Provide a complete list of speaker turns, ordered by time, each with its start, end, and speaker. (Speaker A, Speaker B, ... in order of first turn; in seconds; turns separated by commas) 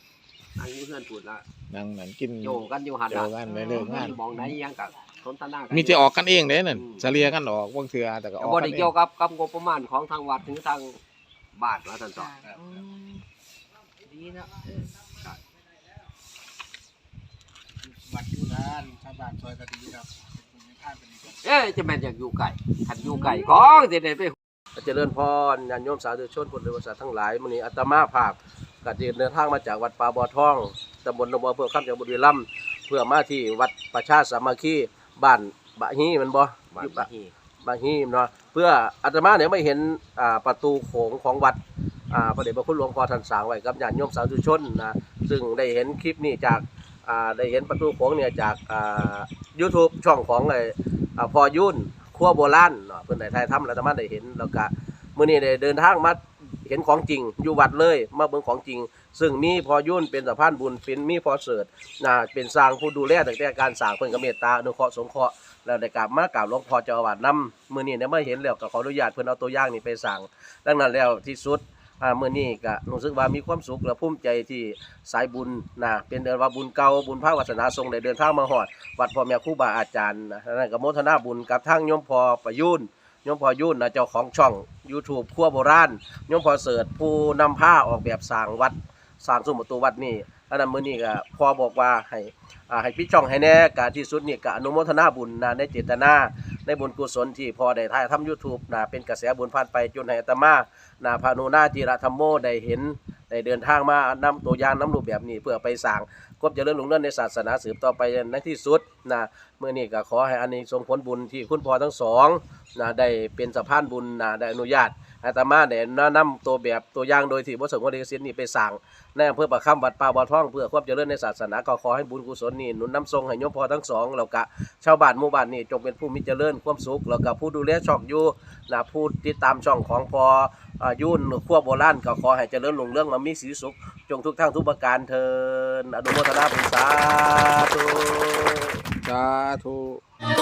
Speaker A: 0.6-1.4, Speaker B: 1.7-2.6, Speaker A: 2.4-6.2, Speaker B: 3.1-4.5, Speaker C: 3.5-4.1, Speaker B: 5.7-8.9, Speaker A: 6.7-7.1, Speaker A: 8.4-11.0, Speaker A: 11.6-12.3, Speaker C: 12.2-13.2, Speaker C: 14.1-14.8, Speaker D: 18.1-21.2, Speaker A: 21.4-24.4, Speaker C: 23.0-23.6, Speaker E: 24.8-37.1, Speaker A: 36.7-37.3, Speaker E: 37.6-41.6, Speaker E: 42.1-138.8, Speaker B: 139.1-139.9